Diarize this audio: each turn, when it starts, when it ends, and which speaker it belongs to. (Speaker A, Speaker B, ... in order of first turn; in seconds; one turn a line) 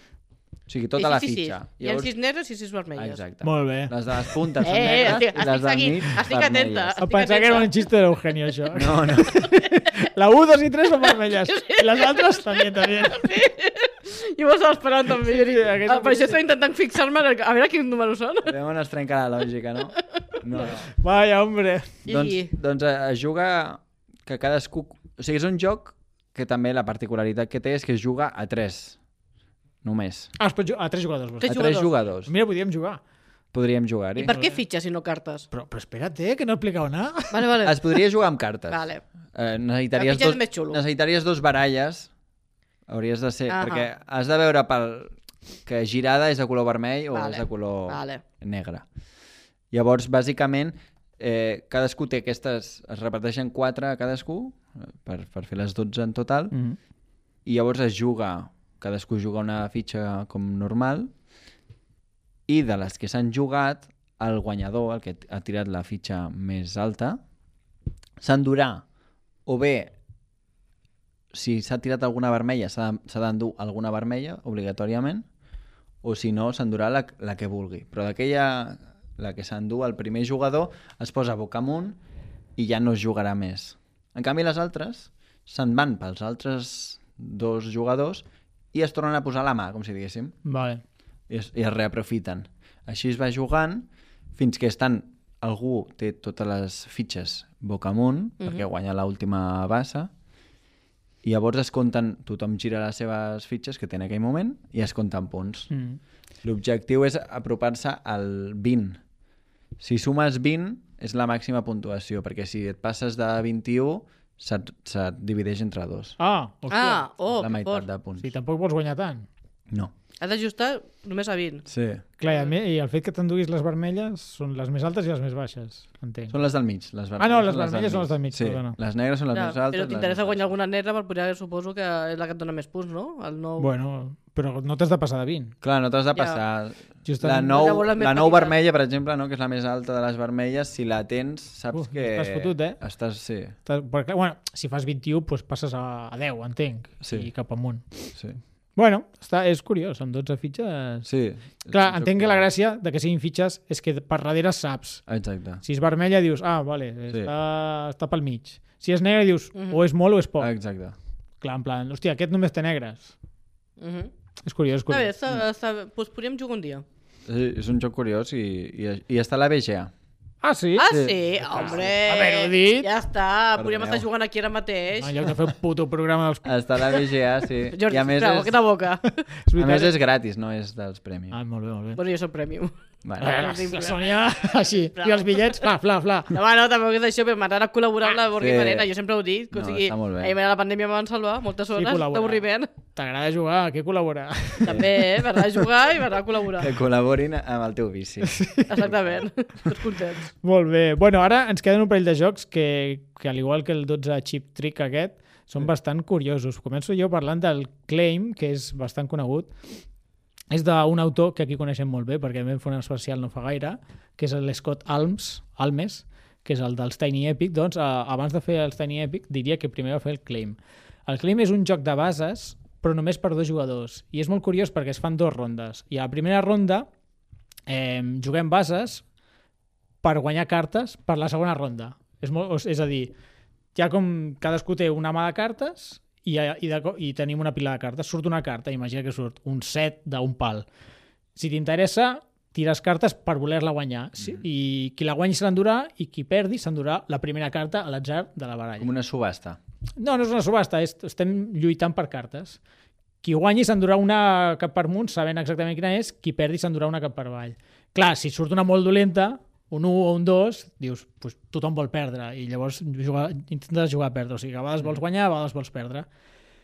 Speaker A: 0.7-2.1
Speaker B: 1.0-3.2
Speaker A: 2.9-7.0
Speaker C: 3.4-3.9
Speaker B: 4.6-7.7
Speaker C: 4.8-5.2
Speaker C: 7.0-13.3
Speaker A: 8.7-9.5
Speaker B: 11.5-18.5
Speaker C: 15.2-16.4
Speaker A: 18.4-20.9
Speaker C: 20.9-22.0
Speaker B: 22.1-22.5
Speaker A: 22.1-29.0
Speaker A: 29.8-30.3
Speaker C: 30.4-33.0
Speaker B: 31.4-31.9
Speaker A: 31.4-32.3
Speaker A: 33.5-34.4
Speaker B: 34.2-35.5
Speaker C: 34.2-34.6
Speaker C: 35.5-37.5
Speaker B: 37.3-38.0
Speaker A: 37.6-42.1
Speaker B: 38.7-39.0
Speaker B: 40.0-40.8
Speaker A: 42.9-48.9
Speaker B: 43.5-43.9
Speaker B: 47.1-48.2
Speaker A: 49.7-56.5
Speaker C: 56.5-56.8
Speaker A: 57.5-61.1
Speaker A: 62.5-67.2
Speaker A: 68.2-68.8
Speaker A: 69.5-69.9
Speaker A: 71.3-75.3
Speaker A: 76.0-82.0
Speaker A: 82.5-90.3
Speaker C: 90.5-90.8
Speaker A: 91.3-100.1
Speaker A: 101.2-105.7
Speaker C: 105.7-106.0
Speaker A: 106.4-109.0
Speaker A: 109.8-116.2
Speaker C: 116.2-117.0
Speaker B: 116.7-117.8
Speaker A: 117.3-118.3
Speaker C: 118.2-119.3
Speaker B: 120.2-121.7
Speaker A: 121.7-122.0
Speaker C: 122.2-126.3
Speaker A: 126.3-130.5
Speaker C: 127.2-128.8
Speaker B: 129.3-133.7
Speaker C: 133.6-135.5
Speaker A: 135.6-143.6
Speaker B: 136.1-136.4
Speaker C: 137.0-137.6
Speaker B: 137.4-138.5
Speaker C: 141.7-142.8
Speaker C: 143.6-148.2
Speaker A: 147.0-147.3
Speaker C: 148.8-151.1
Speaker A: 151.1-152.5
Speaker C: 151.7-155.0
Speaker A: 155.1-155.6
Speaker C: 155.6-160.5
Speaker B: 159.5-159.8
Speaker A: 160.4-160.9
Speaker C: 161.4-163.1
Speaker B: 163.8-164.1
Speaker C: 164.4-165.1
Speaker B: 164.9-166.8
Speaker A: 167.2-169.9
Speaker C: 170.4-172.9
Speaker B: 170.8-175.3
Speaker A: 170.9-171.9
Speaker A: 173.6-174.1
Speaker C: 175.0-176.5
Speaker A: 176.4-178.6
Speaker B: 177.7-179.2
Speaker C: 179.4-179.9
Speaker A: 179.5-181.4
Speaker C: 181.3-182.0
Speaker B: 181.9-184.1
Speaker A: 183.0-183.4
Speaker C: 183.2-186.3
Speaker B: 185.0-185.7
Speaker B: 186.3-192.7
Speaker A: 188.4-188.9
Speaker A: 189.5-190.3
Speaker C: 191.7-194.9
Speaker B: 194.6-196.7
Speaker A: 196.6-199.2
Speaker B: 198.7-200.3
Speaker C: 200.4-209.5
Speaker C: 210.5-226.9
Speaker C: 227.7-229.0
Speaker C: 230.0-233.1
Speaker C: 233.7-240.7
Speaker C: 241.3-248.9
Speaker A: 248.8-249.6
Speaker C: 250.0-252.6
Speaker C: 253.2-266.1